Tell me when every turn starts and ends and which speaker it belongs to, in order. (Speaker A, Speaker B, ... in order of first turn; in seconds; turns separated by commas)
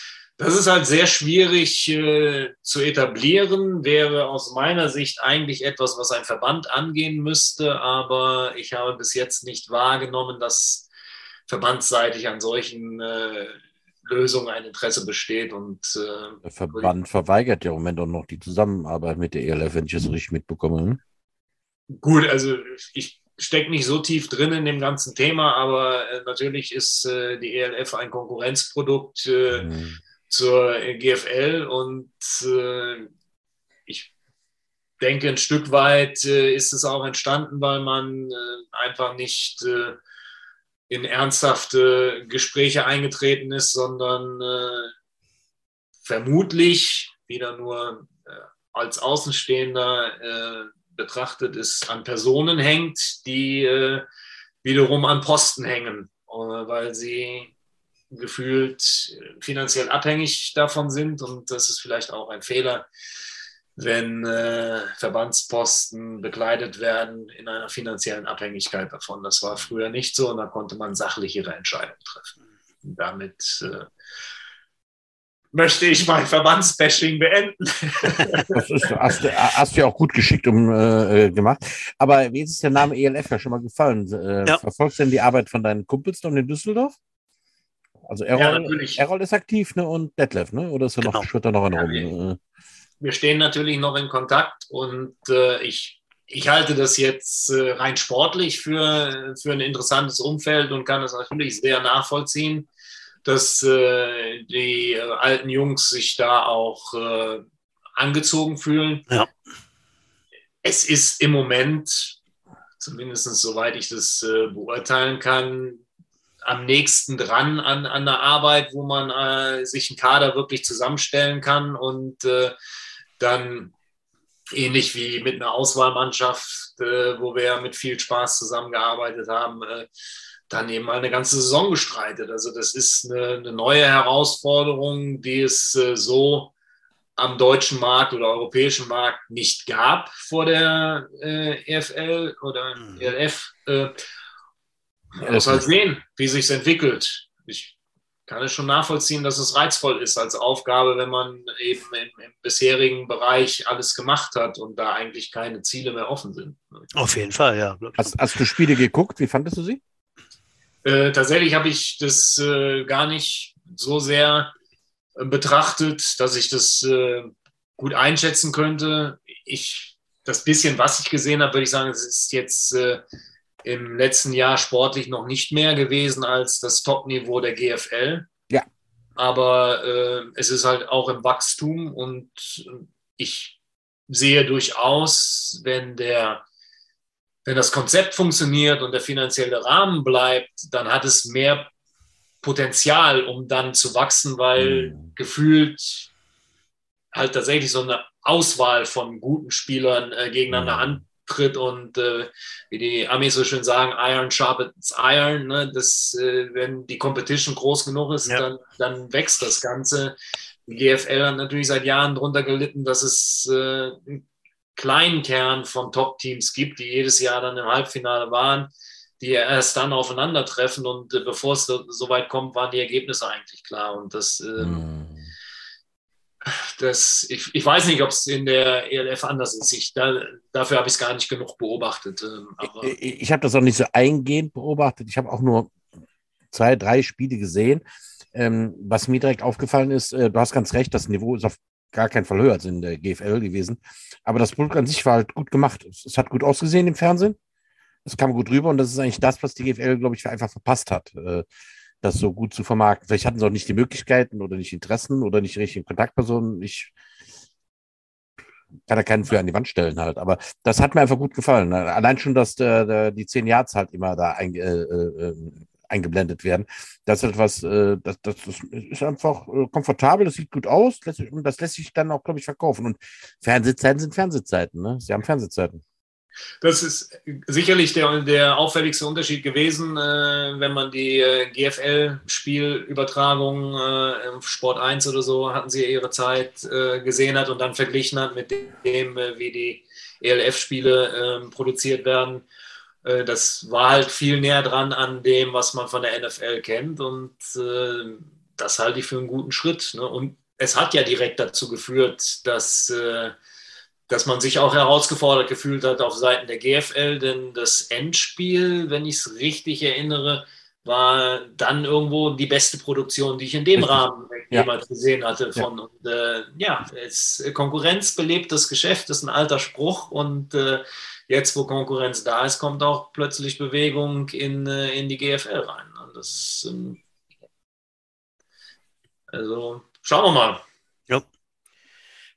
Speaker A: 0.4-10.9, Speaker A: 11.5-16.9, Speaker B: 16.4-21.0, Speaker A: 21.9-29.7, Speaker B: 29.5-30.0, Speaker A: 30.3-33.1, Speaker A: 35.0-40.0, Speaker A: 40.9-44.9, Speaker A: 46.0-54.0, Speaker A: 54.6-57.5, Speaker A: 58.1-62.9, Speaker A: 63.8-72.3, Speaker A: 72.8-73.9, Speaker A: 75.5-78.6, Speaker B: 78.5-87.0, Speaker B: 88.0-92.4, Speaker A: 88.3-89.0, Speaker C: 91.0-91.3, Speaker A: 91.7-92.0, Speaker A: 93.0-102.7, Speaker A: 103.2-107.4, Speaker A: 108.0-109.1, Speaker A: 110.6-112.2, Speaker A: 112.8-115.8, Speaker A: 116.4-122.5, Speaker A: 123.2-123.7, Speaker A: 124.5-129.9, Speaker A: 130.5-136.5, Speaker A: 137.2-143.9, Speaker C: 142.8-143.1, Speaker A: 145.1-147.7, Speaker B: 145.2-145.6, Speaker A: 148.3-156.8, Speaker C: 156.9-158.2, Speaker B: 158.0-159.8, Speaker A: 160.8-164.5, Speaker A: 165.2-173.0, Speaker A: 173.6-178.3, Speaker A: 179.2-183.6, Speaker A: 184.1-186.4, Speaker A: 187.4-191.7, Speaker A: 192.4-196.1, Speaker B: 194.6-195.1, Speaker A: 197.1-210.2, Speaker B: 200.5-201.0, Speaker A: 210.7-214.2, Speaker A: 214.8-224.8, Speaker B: 224.6-225.3, Speaker A: 226.5-233.0, Speaker B: 232.8-235.7, Speaker B: 236.5-237.8, Speaker B: 238.3-247.4, Speaker B: 248.0-251.4, Speaker B: 252.0-256.9, Speaker B: 258.9-275.8, Speaker A: 276.6-292.4, Speaker A: 293.0-303.3, Speaker A: 304.1-327.0, Speaker B: 313.8-314.7, Speaker A: 329.3-330.6